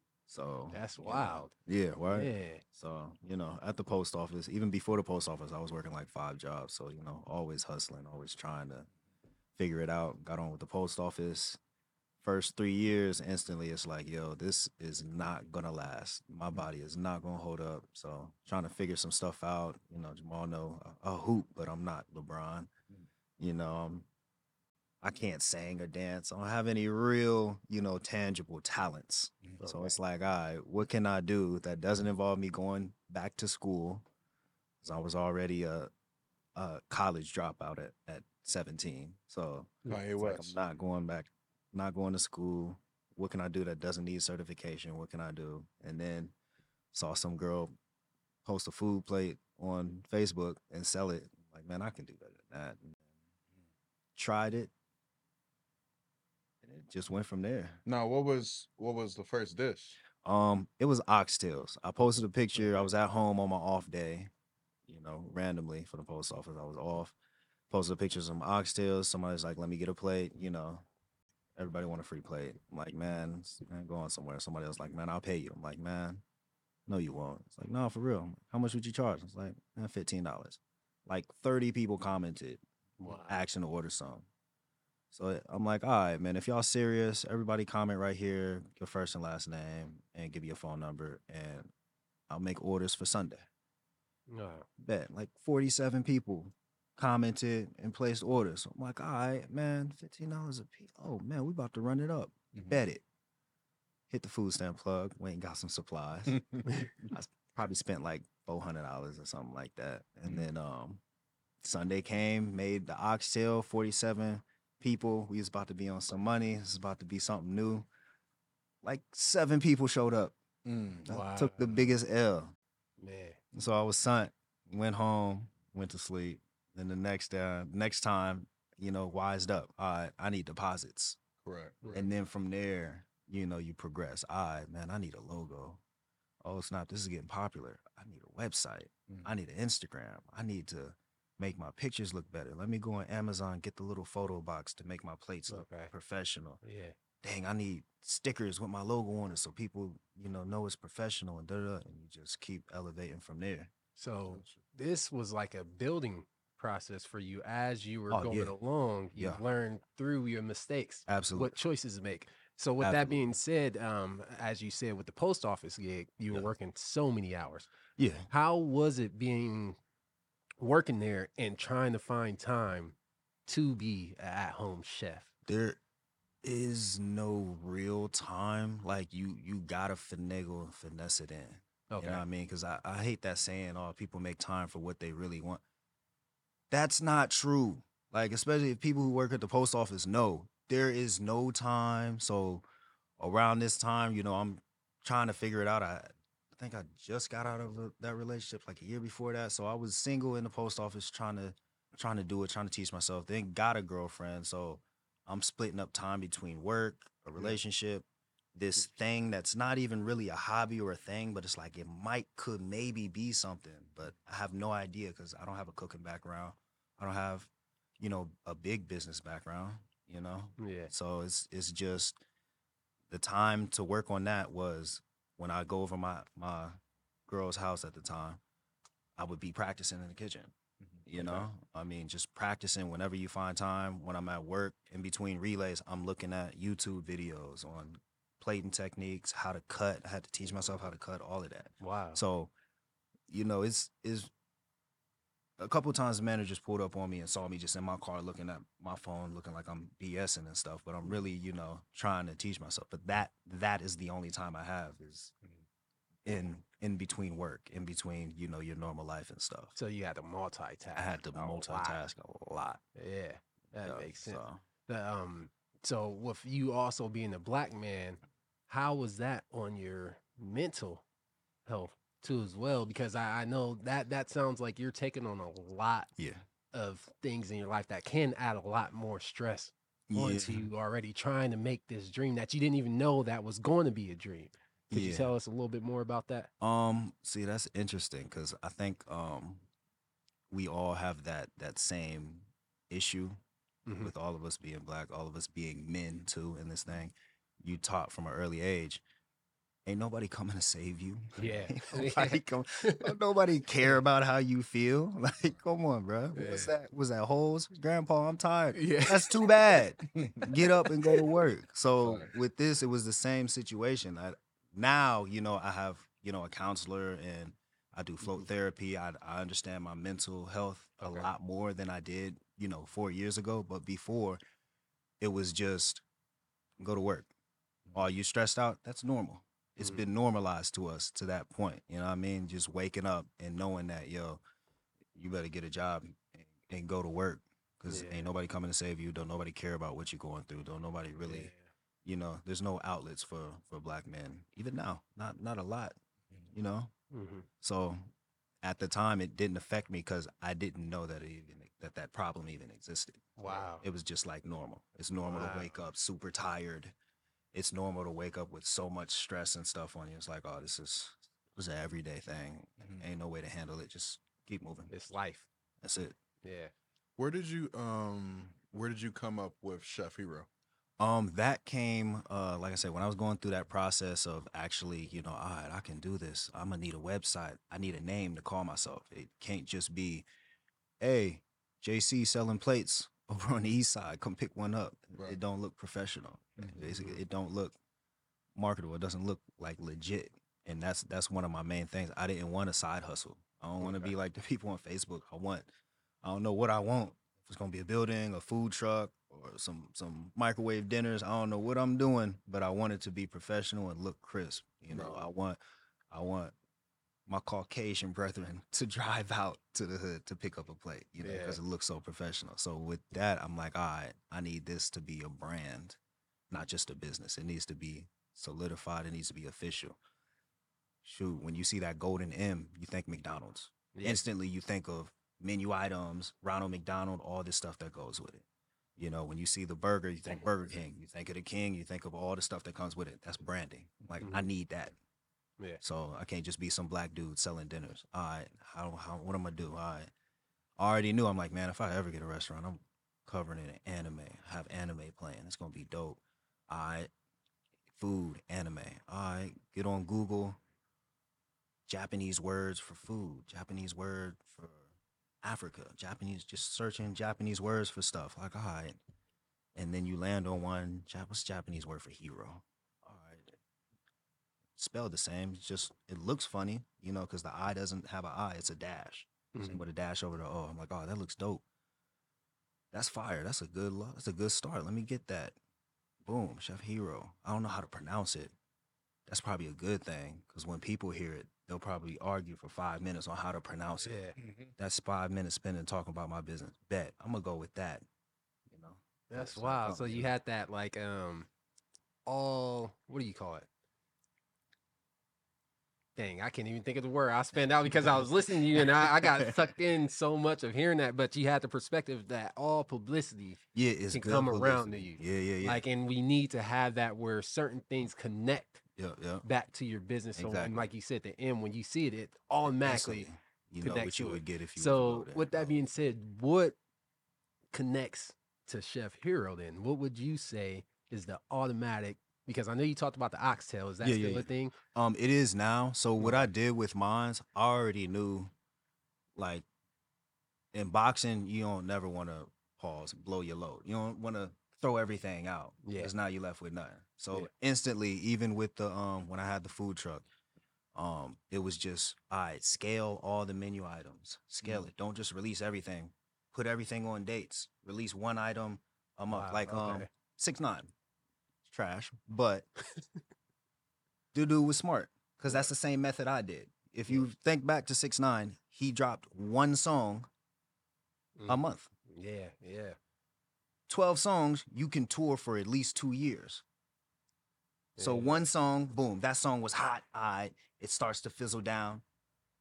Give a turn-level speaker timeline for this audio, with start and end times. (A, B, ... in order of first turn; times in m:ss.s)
0:00.3-0:08.9 A
0:00.7-0:01.5 B
0:02.1-0:02.6 B
0:09.6-0:11.6 A
0:12.2-0:22.7 A
0:23.4-0:24.1 A
0:25.0-0:34.0 A
0:29.6-0:30.0 B
0:34.8-0:35.9 A
0:36.6-0:46.3 A
0:39.9-0:40.5 C
0:46.9-0:47.7 A
0:48.4-0:53.0 A
0:54.2-0:54.7 A
0:56.6-0:57.8 A
0:57.9-1:00.0 C
1:00.2-1:04.3 A
1:04.9-1:07.2 A
1:07.7-1:10.8 A
1:11.6-1:16.2 A
1:16.9-1:24.2 A
1:23.0-1:23.4 B
1:25.1-1:31.7 A
1:32.3-1:33.5 A
1:34.3-1:34.7 B
1:34.8-1:43.0 A
1:42.5-1:42.8 C
1:44.1-1:46.4 A
1:46.3-1:46.6 C
1:47.1-1:51.0 A
1:51.6-1:57.9 A
1:58.8-2:00.4 A
2:00.6-2:01.1 C
2:01.1-2:01.9 B
2:01.1-2:02.5 A
2:03.0-2:03.4 B
2:03.5-2:11.2 A
2:11.4-2:11.9 C
2:11.9-2:15.8 A
2:16.4-2:26.6 A
2:25.5-2:25.9 B
2:26.6-2:26.9 B
2:27.2-2:33.7 A
2:34.0-2:47.7 B
2:38.1-2:38.5 A
2:41.1-2:41.5 A
2:42.8-2:43.2 A
2:48.0-2:48.3 A
2:48.3-2:49.8 B
2:50.6-2:52.9 B
2:53.5-2:55.3 B
2:55.5-2:55.8 A
2:56.4-3:05.6 A
3:01.9-3:02.2 B
3:06.7-3:12.6 A
3:13.2-3:28.0 A
3:28.6-3:42.2 A
3:40.6-3:40.9 B
3:43.1-3:46.8 A
3:47.3-3:48.4 A
3:49.2-3:50.5 A
3:51.1-4:02.5 A
3:51.2-3:51.5 B
4:01.8-4:02.2 B
4:03.3-4:04.3 A
4:05.6-4:15.3 A
4:16.2-4:19.8 A
4:19.8-4:22.0 B
4:21.0-4:22.8 A
4:23.0-4:31.0 B
4:23.8-4:24.6 A
4:31.6-4:36.1 B
4:36.2-4:36.4 A
4:36.7-4:46.5 B
4:40.1-4:40.6 A
4:44.9-4:45.3 A
4:46.6-4:49.6 A
4:50.5-4:53.4 A
4:53.9-4:54.1 B
4:54.0-4:59.0 A
4:59.9-5:24.4 A
5:01.4-5:03.1 B
5:06.3-5:06.7 B
5:08.7-5:09.5 B
5:10.6-5:11.2 B
5:21.0-5:21.3 B
5:25.2-5:26.0 A
5:26.8-5:27.3 A
5:28.0-5:34.4 A
5:35.1-5:41.5 A
5:37.9-5:38.3 B
5:41.2-5:41.6 B
5:42.0-5:46.0 A
5:46.5-5:46.9 A
5:47.1-5:47.5 B
5:47.6-5:48.1 A
5:48.6-5:56.9 A
5:53.4-5:53.8 B
5:55.2-5:55.7 B
5:57.5-6:04.9 A
6:02.8-6:03.1 C
6:04.9-6:05.5 B
6:05.8-6:06.2 A
6:06.4-6:06.7 B
6:07.2-6:10.5 C
6:11.0-6:20.3 A
6:21.0-6:27.8 A
6:26.6-6:27.2 C
6:28.6-6:35.7 A
6:36.2-6:45.6 A
6:46.1-6:46.5 A
6:47.3-6:56.0 A
6:51.2-6:51.6 B
6:56.5-7:00.0 A
7:01.0-7:08.4 A
7:03.9-7:04.2 B
7:09.0-7:15.0 A
7:14.2-7:14.5 B
7:15.8-7:20.1 A
7:20.8-7:27.1 A
7:28.0-7:30.6 A
7:31.9-7:34.9 A
7:35.4-7:39.0 A
7:39.8-7:43.6 A
7:44.8-7:51.6 A
7:49.5-7:49.8 B
7:52.9-7:55.6 A
7:56.2-7:58.5 A
7:59.3-8:04.1 A
8:04.0-8:04.4 B
8:04.4-8:04.7 C
8:04.8-8:08.0 A
8:08.7-8:10.3 A
8:09.3-8:11.5 B
8:12.2-8:13.6 B
8:16.2-8:23.6 B
8:23.7-8:25.8 A
8:24.1-8:28.8 B
8:29.0-8:29.4 A
8:29.4-8:33.3 B
8:30.4-8:30.9 A
8:32.8-8:35.8 A
8:33.8-8:36.8 B
8:37.7-8:44.8 B
8:44.0-8:48.5 A
8:46.2-8:46.5 B
8:49.4-8:49.6 A
8:50.7-9:00.2 A
8:55.8-8:56.1 B
9:01.0-9:10.9 A
9:09.3-9:10.1 B
9:11.6-9:12.7 A
9:14.3-9:20.3 A
9:21.4-9:23.0 B
9:21.5-9:21.9 A
9:23.9-9:26.6 A
9:28.0-9:28.4 B
9:28.0-9:32.0 A